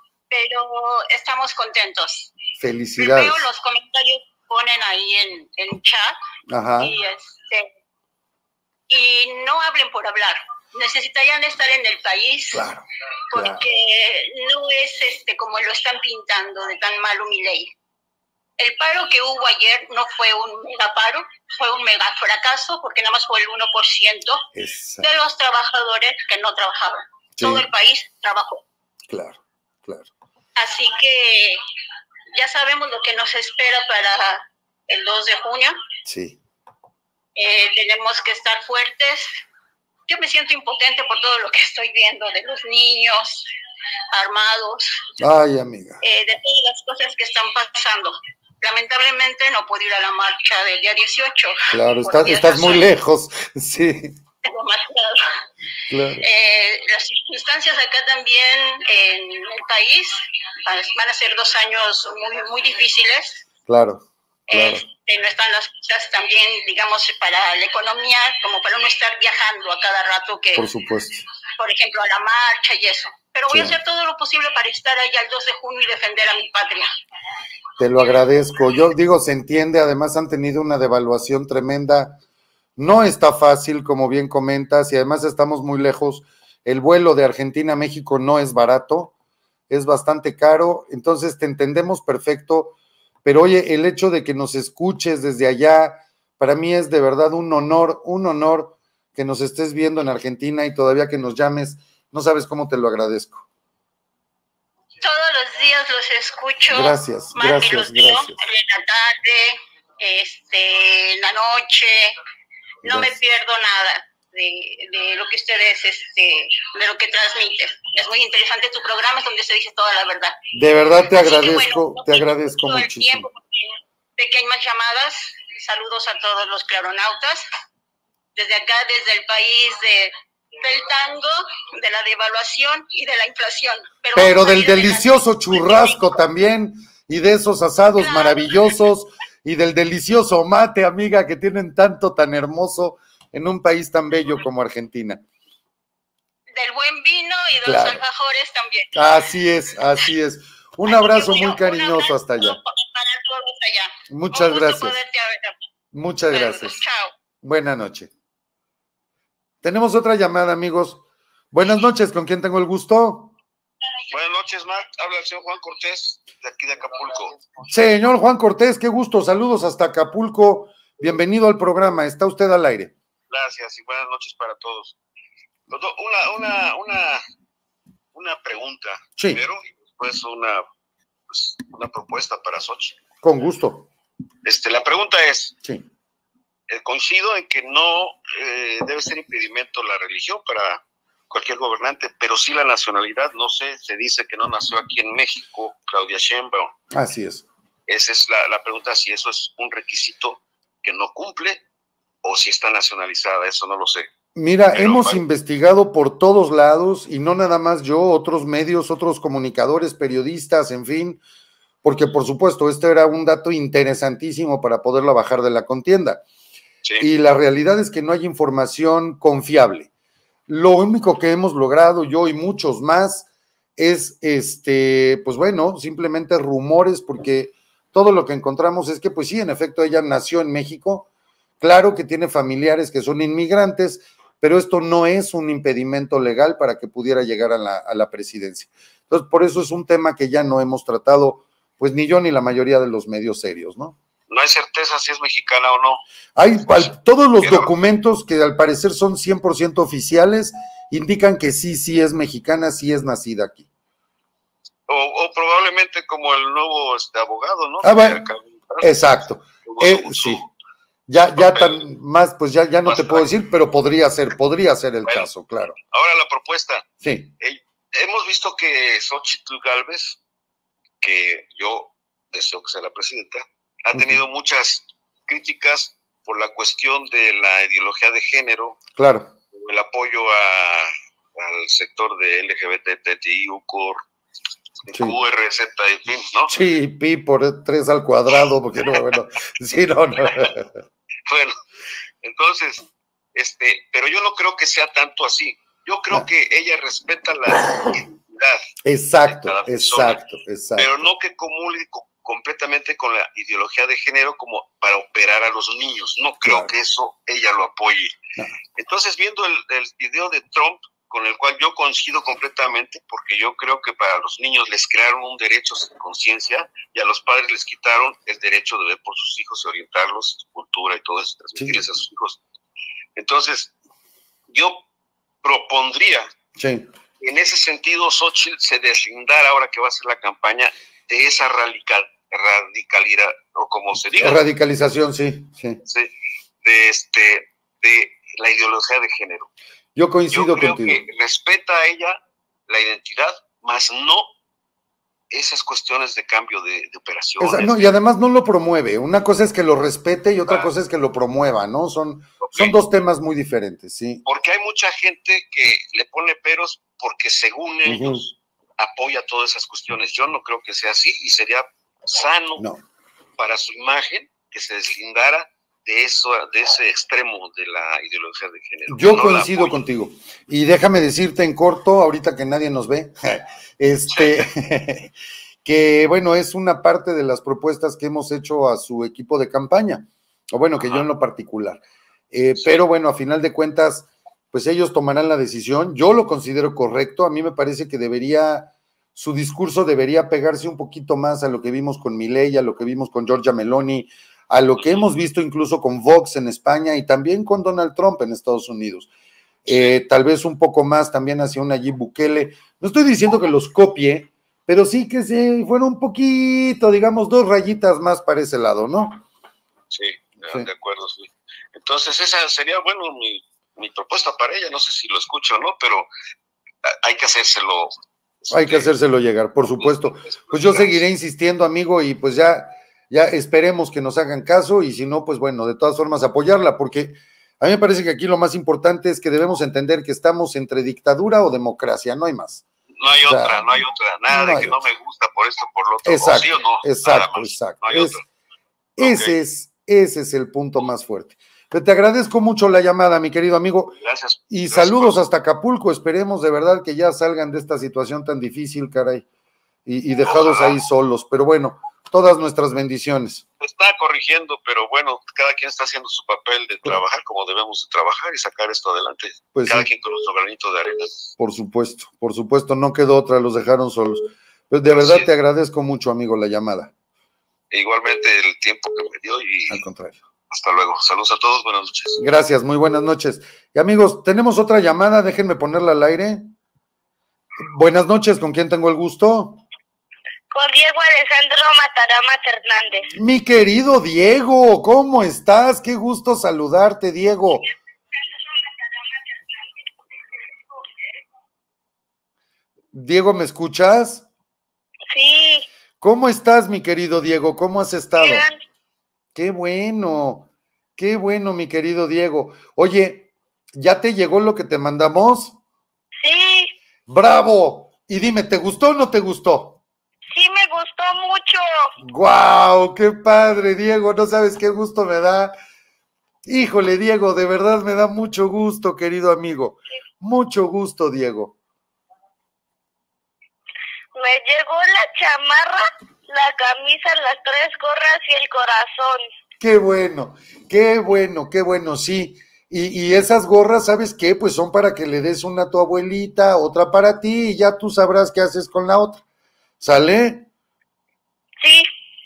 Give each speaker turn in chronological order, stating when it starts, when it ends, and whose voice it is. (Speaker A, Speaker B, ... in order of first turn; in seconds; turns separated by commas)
Speaker A: 0.3-2.3, Speaker B: 2.6-3.5, Speaker A: 3.0-6.1, Speaker B: 6.5-6.9, Speaker A: 6.8-7.7, Speaker A: 8.9-12.7, Speaker B: 12.5-13.6, Speaker A: 13.3-17.7, Speaker A: 18.6-24.4, Speaker B: 24.6-25.1, Speaker A: 25.0-28.6, Speaker B: 27.4-27.6, Speaker B: 29.1-30.1, Speaker A: 30.6-31.6, Speaker A: 32.3-35.8, Speaker B: 36.0-36.4, Speaker A: 37.4-39.3, Speaker A: 40.1-43.5, Speaker A: 44.1-45.1, Speaker B: 45.2-46.0, Speaker A: 46.0-52.9, Speaker B: 51.7-54.1, Speaker A: 54.4-55.3, Speaker B: 55.9-56.2, Speaker A: 56.2-63.4, Speaker B: 63.7-64.8, Speaker A: 64.5-70.7, Speaker B: 70.5-71.2, Speaker A: 71.6-76.9, Speaker B: 73.5-73.8, Speaker B: 77.8-82.2, Speaker B: 82.8-89.1, Speaker B: 89.7-103.5, Speaker A: 105.0-112.1, Speaker B: 106.7-108.3, Speaker B: 112.8-113.1, Speaker A: 112.8-120.4, Speaker B: 120.5-123.3, Speaker A: 121.0-127.4, Speaker A: 128.3-136.1, Speaker B: 134.1-145.2, Speaker A: 137.9-138.7, Speaker A: 146.5-148.9, Speaker B: 147.6-148.0, Speaker B: 148.9-152.6, Speaker A: 150.8-155.5, Speaker B: 154.1-155.0, Speaker B: 155.9-156.8, Speaker A: 156.3-157.1, Speaker B: 157.4-158.1, Speaker B: 159.6-161.0, Speaker B: 161.5-163.3, Speaker C: 164.1-167.4, Speaker B: 167.7-172.9, Speaker C: 173.3-174.9, Speaker C: 175.7-177.2, Speaker C: 178.1-180.6, Speaker C: 181.3-183.0, Speaker B: 183.2-183.9, Speaker C: 184.4-185.5, Speaker C: 186.7-196.7, Speaker B: 196.9-197.4, Speaker C: 197.9-201.6, Speaker C: 202.2-204.1, Speaker B: 204.3-211.2, Speaker C: 204.7-205.2, Speaker B: 211.8-216.2, Speaker B: 217.0-219.9, Speaker B: 220.5-231.1, Speaker B: 231.6-243.9, Speaker C: 244.3-246.0, Speaker B: 246.3-253.7, Speaker C: 246.6-247.7, Speaker C: 254.9-258.9, Speaker B: 257.8-258.2, Speaker B: 258.8-260.4, Speaker C: 259.6-260.5, Speaker B: 261.1-265.8, Speaker C: 261.4-261.8, Speaker C: 262.8-263.3, Speaker C: 265.0-265.3, Speaker C: 265.8-266.9, Speaker B: 267.0-267.3, Speaker C: 267.4-270.2, Speaker C: 271.0-278.8, Speaker B: 273.9-274.2, Speaker B: 278.9-279.3, Speaker C: 279.5-284.0, Speaker C: 284.9-286.5, Speaker B: 286.5-290.7, Speaker C: 291.3-291.5, Speaker C: 292.2-298.6, Speaker B: 298.8-301.1, Speaker C: 299.2-300.2, Speaker C: 300.8-308.1, Speaker B: 306.4-306.7, Speaker C: 308.8-322.4, Speaker C: 323.2-323.7, Speaker C: 324.5-324.8, Speaker C: 325.4-326.3, Speaker B: 326.6-326.9, Speaker C: 327.2-334.4, Speaker B: 334.2-335.8, Speaker C: 335.8-336.1, Speaker C: 336.6-339.5, Speaker B: 339.9-341.0, Speaker C: 340.3-344.3, Speaker C: 345.3-347.9, Speaker B: 347.4-354.2, Speaker C: 352.4-352.8, Speaker C: 354.2-362.6, Speaker B: 357.9-358.2, Speaker C: 363.4-369.7, Speaker B: 368.9-375.1, Speaker C: 374.1-374.4, Speaker B: 375.6-381.8, Speaker B: 382.3-399.1, Speaker C: 382.6-382.8, Speaker C: 399.7-399.9, Speaker B: 399.7-409.2, Speaker C: 409.9-416.1, Speaker C: 417.0-417.9, Speaker C: 418.4-418.9, Speaker B: 418.5-432.6, Speaker C: 419.7-421.0, Speaker C: 433.0-438.2, Speaker B: 433.2-433.7, Speaker B: 434.3-434.8, Speaker B: 436.0-438.2, Speaker C: 439.0-439.3, Speaker B: 439.0-443.9, Speaker C: 444.0-445.2, Speaker B: 444.5-449.2, Speaker B: 449.9-453.4, Speaker C: 450.2-450.8, Speaker C: 453.6-461.3, Speaker B: 459.5-459.9, Speaker B: 461.4-466.9, Speaker C: 464.9-465.3, Speaker C: 467.7-469.8, Speaker B: 469.7-470.2, Speaker C: 470.5-472.2, Speaker B: 472.2-476.5, Speaker B: 477.7-479.6, Speaker D: 480.5-483.0, Speaker B: 483.1-487.6, Speaker B: 492.9-494.2, Speaker D: 495.1-495.6, Speaker B: 496.0-498.5, Speaker D: 498.2-498.5, Speaker B: 499.3-505.5, Speaker D: 506.2-506.7, Speaker B: 507.1-509.8, Speaker D: 510.3-511.9, Speaker B: 512.0-515.5, Speaker B: 516.5-521.5, Speaker D: 524.1-529.2, Speaker B: 529.6-539.2, Speaker B: 539.8-540.5, Speaker D: 541.6-541.9